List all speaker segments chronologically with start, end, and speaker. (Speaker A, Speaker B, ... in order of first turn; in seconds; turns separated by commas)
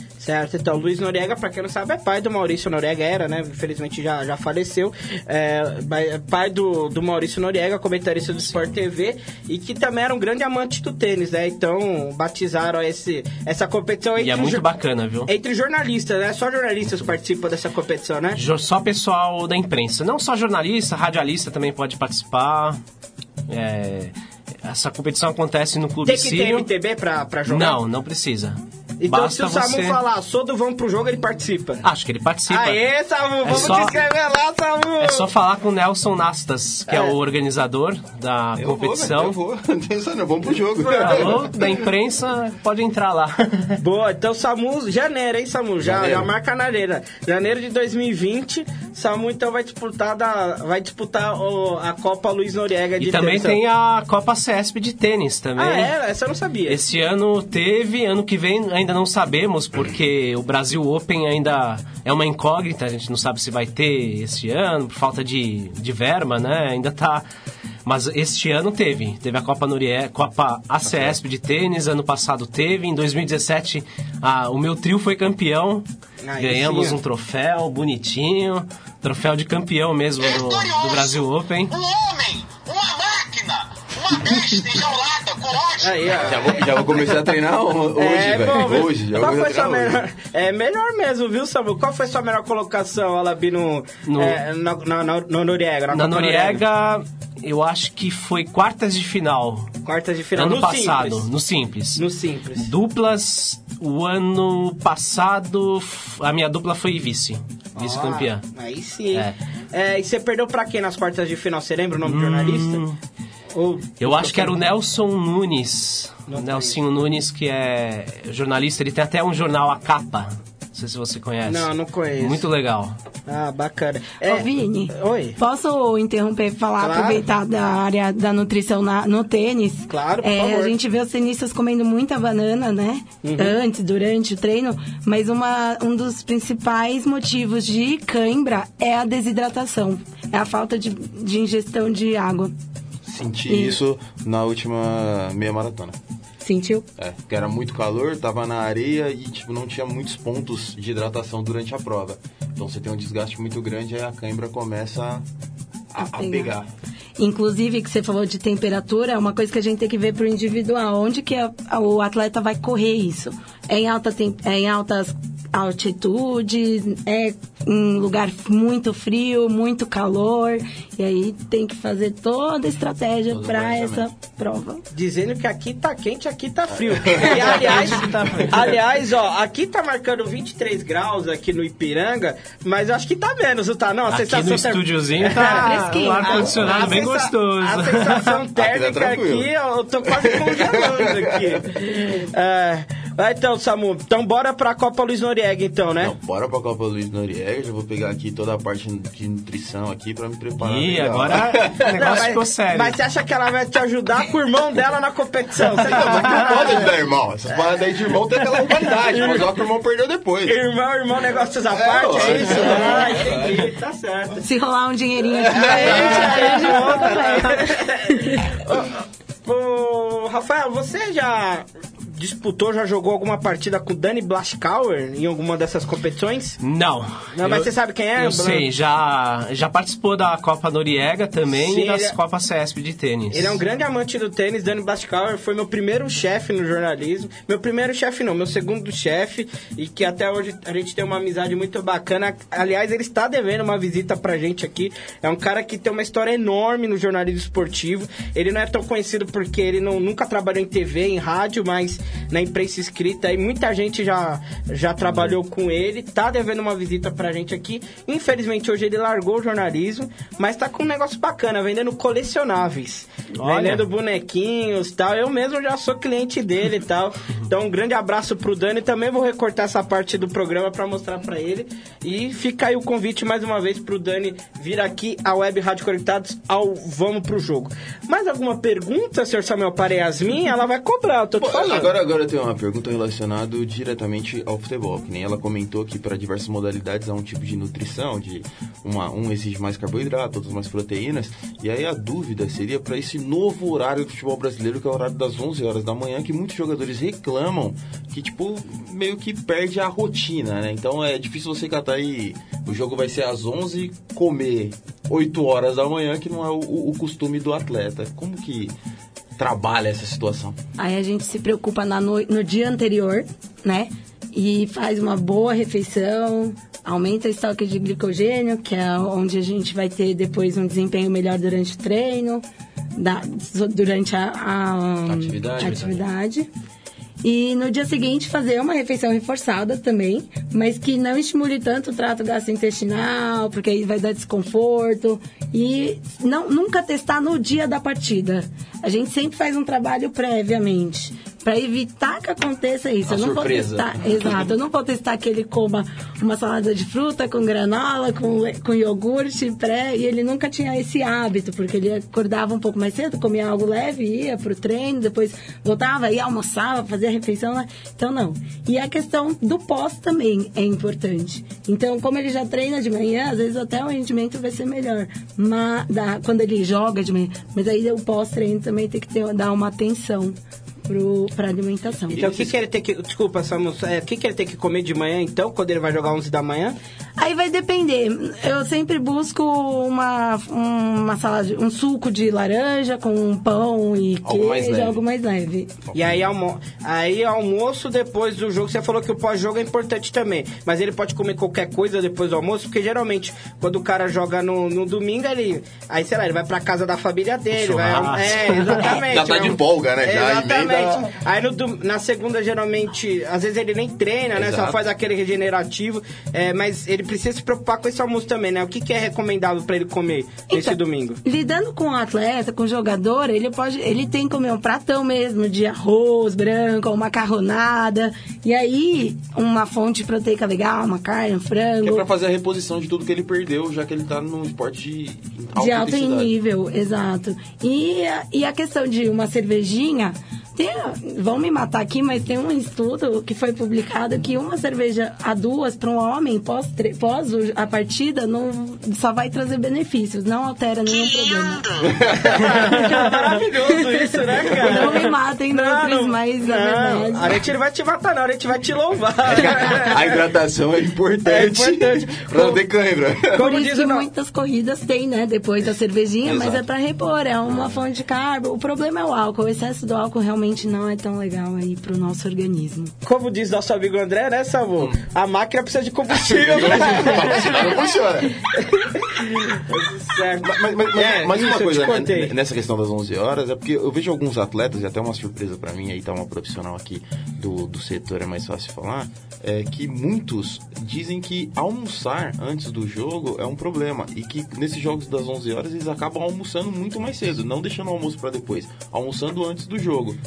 Speaker A: 0.2-14.7, Speaker B: 14.2-15.3, Speaker A: 15.3-18.4, Speaker B: 18.4-22.8, Speaker B: 23.5-26.7, Speaker A: 26.1-27.8, Speaker B: 27.5-30.0, Speaker A: 29.0-31.8, Speaker B: 31.8-32.8, Speaker A: 32.5-35.3, Speaker B: 33.4-34.0, Speaker C: 33.5-33.8, Speaker B: 35.0-39.4, Speaker A: 36.9-37.1, Speaker C: 38.6-41.7, Speaker A: 40.8-41.4, Speaker B: 40.9-43.8, Speaker A: 43.8-53.6, Speaker C: 45.8-46.3, Speaker B: 53.0-55.9, Speaker A: 55.6-56.8, Speaker B: 56.7-67.2, Speaker B: 67.8-75.9, Speaker C: 70.8-71.2, Speaker A: 76.2-77.0, Speaker B: 76.4-81.8, Speaker A: 85.8-86.5, Speaker C: 86.1-90.0, Speaker A: 88.0-96.6, Speaker B: 94.1-94.4, Speaker B: 95.9-99.7, Speaker A: 99.8-101.3, Speaker B: 100.3-102.0, Speaker A: 102.0-102.7, Speaker B: 102.6-108.4, Speaker A: 107.8-112.8, Speaker B: 112.0-113.0, Speaker A: 113.5-114.6, Speaker B: 114.0-123.0, Speaker A: 116.3-116.8, Speaker A: 121.5-122.5, Speaker A: 123.3-125.4, Speaker D: 124.2-142.5, Speaker A: 126.8-127.2, Speaker A: 129.9-130.8, Speaker A: 133.2-133.6, Speaker C: 143.0-146.0, Speaker D: 143.5-143.8, Speaker D: 146.4-146.8, Speaker C: 147.0-155.2, Speaker C: 155.9-156.7, Speaker D: 156.0-156.5, Speaker D: 157.2-174.8, Speaker C: 173.3-174.1, Speaker A: 174.9-196.1, Speaker C: 176.7-178.3, Speaker B: 184.1-188.4, Speaker D: 185.4-186.5, Speaker C: 188.6-189.5, Speaker C: 190.1-191.6, Speaker C: 196.0-202.2, Speaker B: 200.6-203.0, Speaker A: 201.9-206.9, Speaker C: 205.8-210.6, Speaker A: 209.0-209.5, Speaker A: 210.5-214.4, Speaker C: 211.7-213.7, Speaker D: 212.5-212.8, Speaker D: 214.4-218.1, Speaker C: 215.3-217.1, Speaker A: 215.6-226.6, Speaker B: 226.6-233.6, Speaker A: 227.3-228.7, Speaker A: 231.5-232.1, Speaker A: 233.3-281.9, Speaker B: 263.4-263.9, Speaker C: 281.4-308.7, Speaker C: 309.4-310.6, Speaker D: 310.8-322.4, Speaker D: 322.9-326.5, Speaker C: 325.1-326.0, Speaker D: 327.2-370.4, Speaker C: 343.1-344.5, Speaker D: 370.9-372.5, Speaker A: 372.1-376.8, Speaker D: 377.2-385.7, Speaker C: 384.2-385.0, Speaker C: 385.9-386.3, Speaker A: 385.9-411.2, Speaker B: 397.5-399.0, Speaker C: 398.6-401.1, Speaker C: 404.3-404.8, Speaker D: 410.5-422.1, Speaker C: 421.8-426.3, Speaker D: 425.6-441.6, Speaker C: 441.8-442.7, Speaker A: 442.2-450.2, Speaker D: 442.7-443.1, Speaker D: 443.7-444.0, Speaker D: 444.5-447.4, Speaker C: 444.5-444.9, Speaker C: 449.3-453.4, Speaker A: 451.2-452.6, Speaker A: 453.3-454.1, Speaker D: 453.4-462.9, Speaker C: 456.2-456.6, Speaker C: 457.5-457.8, Speaker A: 463.1-467.8, Speaker C: 466.1-468.4, Speaker A: 468.6-472.3, Speaker C: 470.4-490.2